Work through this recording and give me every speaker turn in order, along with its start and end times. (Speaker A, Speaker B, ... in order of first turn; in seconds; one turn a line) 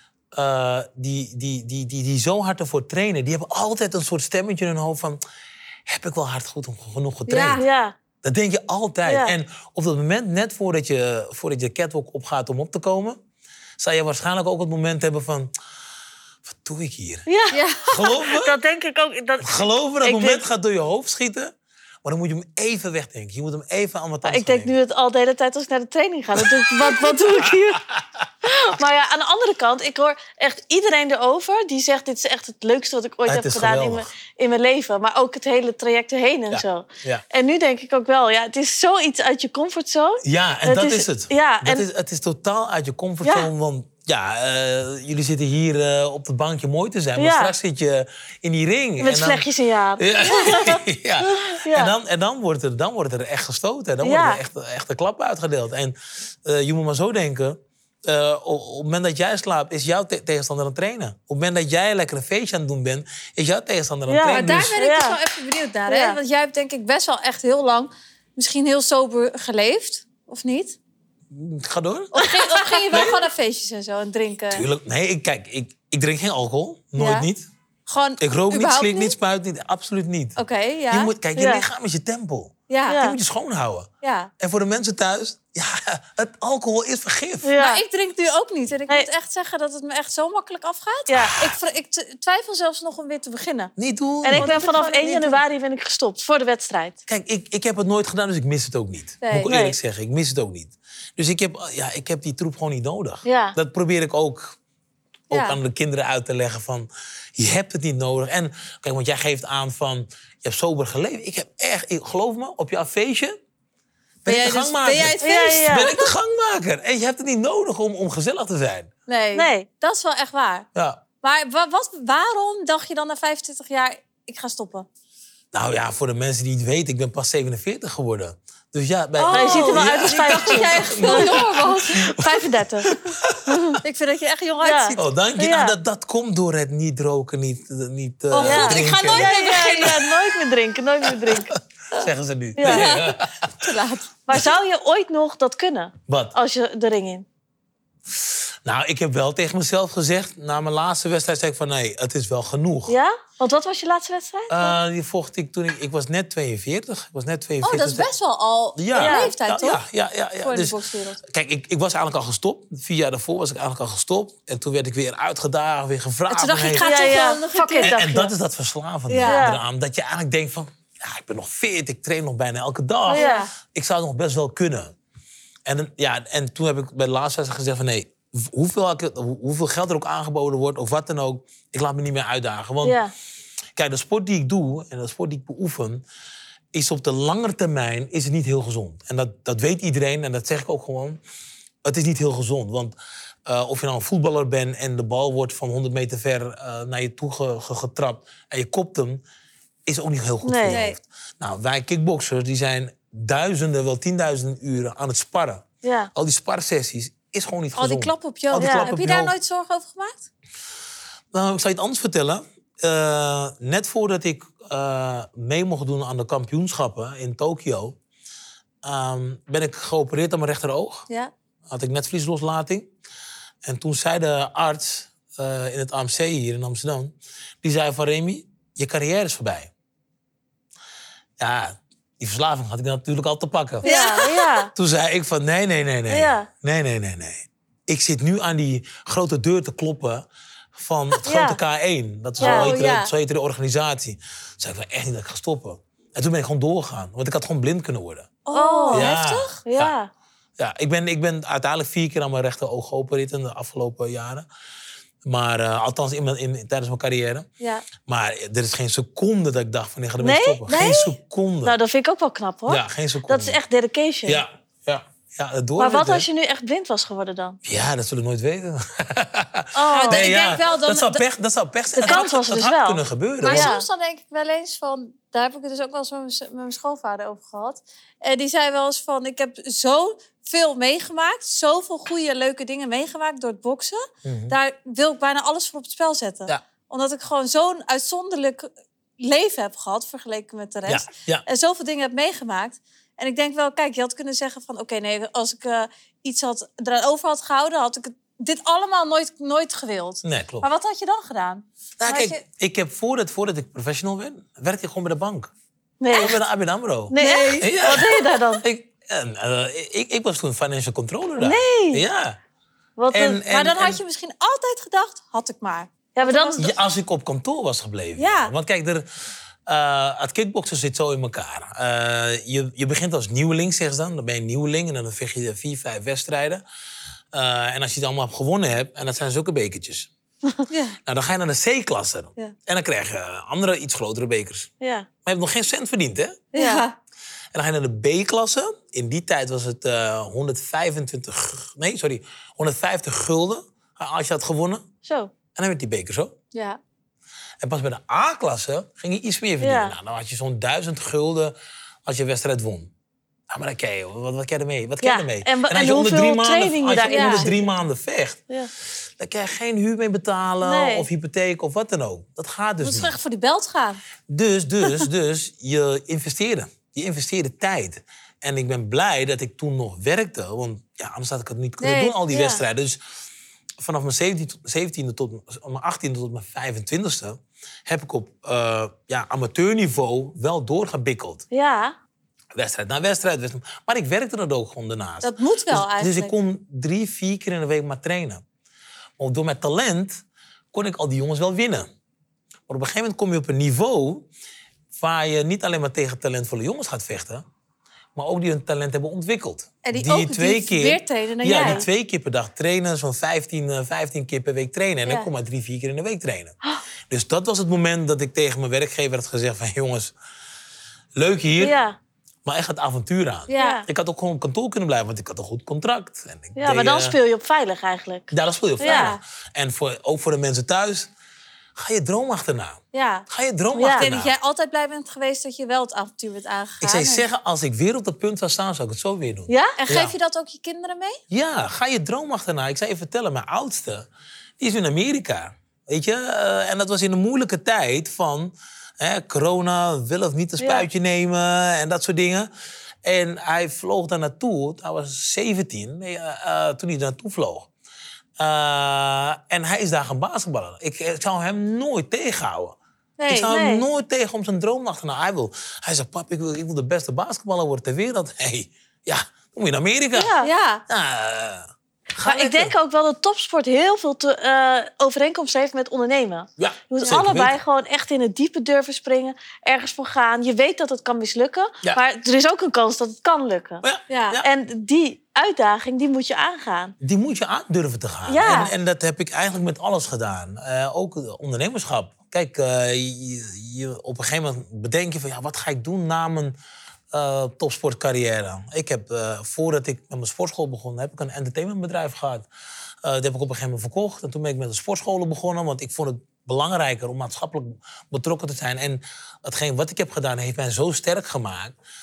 Speaker A: 0.3-5.2
Speaker A: 5.8-7.6
Speaker B: 7.3-7.6
Speaker C: 7.5-7.9
Speaker A: 8.2-13.2
Speaker C: 9.1-9.3
Speaker A: 13.8-15.5
Speaker A: 16.4-17.3
Speaker C: 17.3-20.4
Speaker B: 17.5-18.1
Speaker A: 17.9-18.6
Speaker A: 19.4-24.7
Speaker C: 24.2-27.8
Speaker A: 26.3-28.3
Speaker C: 28.4-41.9
Speaker A: 33.3-34.1
Speaker A: 36.5-37.2
Speaker A: 40.2-49.5
Speaker C: 47.2-47.5
Speaker C: 49.0-51.9
Speaker A: 50.0-64.8
Speaker B: 50.2-50.6
Speaker C: 54.0-54.4
Speaker C: 64.1-65.2
Speaker B: 64.3-70.8
Speaker C: 65.9-66.2
Speaker A: 71.3-72.1
Speaker B: 72.1-74.6
Speaker C: 72.3-72.9
Speaker A: 72.9-73.2
Speaker A: 74.5-77.5
Speaker B: 77.0-77.3
Speaker B: 77.9-79.1
Speaker A: 78.2-80.4
Speaker B: 80.4-81.1
Speaker A: 80.9-87.5
Speaker C: 81.3-81.6
Speaker B: 82.7-83.0
Speaker C: 82.9-83.2
Speaker B: 84.0-84.3
Speaker C: 87.4-87.8
Speaker B: 87.6-93.7
Speaker C: 91.1-91.4
Speaker A: 91.2-91.5
Speaker A: 93.8-94.7
Speaker C: 94.2-97.0
Speaker B: 94.3-95.4
Speaker A: 97.1-104.6
Speaker B: 99.2-99.5
Speaker C: 99.5-99.8
Speaker C: 103.2-103.6
Speaker B: 105.3-105.6
Speaker A: 105.3-113.4
Speaker A: 114.2-118.9
Speaker B: 114.2-116.1
Speaker C: 115.2-115.9
Speaker B: 119.1-120.7
Speaker C: 119.3-119.7
Speaker A: 120.7-121.0
Speaker B: 121.2-124.9
Speaker A: 125.5-133.8
Speaker B: 129.2-132.1
Speaker C: 129.3-133.8
Speaker B: 133.8-135.0
Speaker C: 134.6-135.8
Speaker A: 134.9-140.1
Speaker B: 138.3-140.1
Speaker C: 138.4-141.5
Speaker A: 141.0-143.5
Speaker C: 142.6-143.1
Speaker B: 142.6-144.1
Speaker C: 144.3-147.2
Speaker A: 146.1-146.3
Speaker A: 148.1-152.9
Speaker C: 152.9-154.8
Speaker A: 154.5-158.1
Speaker B: 157.6-159.8
Speaker A: 158.8-167.2
Speaker C: 158.9-159.3
Speaker B: 160.4-161.2
Speaker B: 166.3-168.0
Speaker C: 166.8-168.3
Speaker A: 167.8-174.9
Speaker B: 169.1-169.4
Speaker C: 169.2-169.6
Speaker B: 173.1-173.5
Speaker C: 173.1-173.4
Speaker A: 175.7-183.0
Speaker C: 182.8-183.1
Speaker A: 183.8-186.0
Speaker A: 186.7-191.2
Speaker A: 191.8-192.9
Speaker A: 193.5-199.2
Speaker A: 199.9-209.3
Speaker C: 200.4-200.8
Speaker B: 200.7-201.0
Speaker C: 205.8-206.1
Speaker B: 207.8-210.3
Speaker C: 208.6-208.9
Speaker A: 211.3-218.0
Speaker A: 218.8-221.1
Speaker A: 221.7-222.9
Speaker A: 223.6-229.7
Speaker A: 231.4-233.9
Speaker B: 233.8-234.6
Speaker C: 233.8-234.7
Speaker A: 234.7-248.3
Speaker C: 236.1-236.5
Speaker C: 241.2-241.6
Speaker B: 242.4-243.1
Speaker C: 242.4-242.7
Speaker B: 248.4-249.6
Speaker C: 248.5-250.1
Speaker A: 248.9-249.9
Speaker A: 250.6-254.4
Speaker A: 255.2-257.5
Speaker A: 258.1-261.7
Speaker C: 260.2-261.0
Speaker B: 260.7-261.1
Speaker C: 261.6-264.4
Speaker A: 262.7-263.6
Speaker A: 264.2-266.2
Speaker C: 265.8-267.6
Speaker A: 267.6-273.7
Speaker C: 269.7-270.3
Speaker B: 269.9-271.2
Speaker C: 272.0-273.8
Speaker B: 273.4-302.4
Speaker A: 284.2-284.6
Speaker A: 290.9-291.4
Speaker A: 300.2-300.7
Speaker A: 302.0-305.5
Speaker C: 306.0-306.4
Speaker A: 306.1-312.4
Speaker C: 307.1-308.6
Speaker B: 307.1-307.7
Speaker C: 311.4-312.0
Speaker C: 313.0-313.4
Speaker A: 313.1-314.0
Speaker B: 313.5-316.7
Speaker C: 316.1-316.7
Speaker A: 316.6-319.1
Speaker B: 318.2-318.5
Speaker A: 319.7-326.6
Speaker A: 327.3-330.1
Speaker B: 330.7-331.0
Speaker A: 331.1-334.7
Speaker C: 334.8-335.1
Speaker A: 335.2-336.5
Speaker B: 336.5-336.9
Speaker C: 336.5-336.9
Speaker A: 337.5-344.8
Speaker C: 345.0-345.3
Speaker A: 345.5-346.3
Speaker B: 346.5-346.8
Speaker A: 347.6-351.5
Speaker C: 349.6-349.9
Speaker A: 352.1-352.9
Speaker A: 353.5-363.2
Speaker C: 355.0-357.6
Speaker B: 357.1-357.5
Speaker C: 360.6-361.1
Speaker B: 362.8-364.0
Speaker A: 364.3-373.0
Speaker B: 371.8-372.1
Speaker C: 372.3-372.6
Speaker A: 373.8-381.4
Speaker C: 381.5-381.9
Speaker A: 382.5-388.4
Speaker B: 385.2-386.3
Speaker A: 389.2-391.9
Speaker A: 392.7-394.3
Speaker A: 394.9-397.4
Speaker A: 398.1-406.5
Speaker B: 399.8-401.9
Speaker C: 401.5-401.8
Speaker A: 407.1-410.1
Speaker A: 411.1-411.8
Speaker C: 411.6-412.0
Speaker A: 412.4-417.1
Speaker B: 413.5-413.8
Speaker C: 413.5-413.8
Speaker C: 416.6-419.1
Speaker A: 418.3-421.1
Speaker B: 418.8-419.2
Speaker A: 421.8-424.3
Speaker B: 422.9-423.2
Speaker C: 423.8-424.1
Speaker B: 423.9-427.2
Speaker A: 426.8-430.1
Speaker C: 429.5-429.8
Speaker B: 429.8-431.2
Speaker A: 431.3-434.1
Speaker A: 434.6-442.5
Speaker C: 440.6-440.9
Speaker A: 443.0-447.7
Speaker A: 448.4-452.8
Speaker B: 453.2-453.6
Speaker A: 453.3-460.3
Speaker C: 453.5-453.8
Speaker C: 460.1-460.5
Speaker B: 460.4-460.8
Speaker A: 460.9-462.7
Speaker C: 462.2-473.8
Speaker A: 466.6-467.6
Speaker A: 473.8-474.5
Speaker B: 474.1-474.4
Speaker C: 474.4-476.9
Speaker A: 477.0-486.5
Speaker C: 478.3-478.7
Speaker A: 487.1-492.5
Speaker A: 493.0-501.7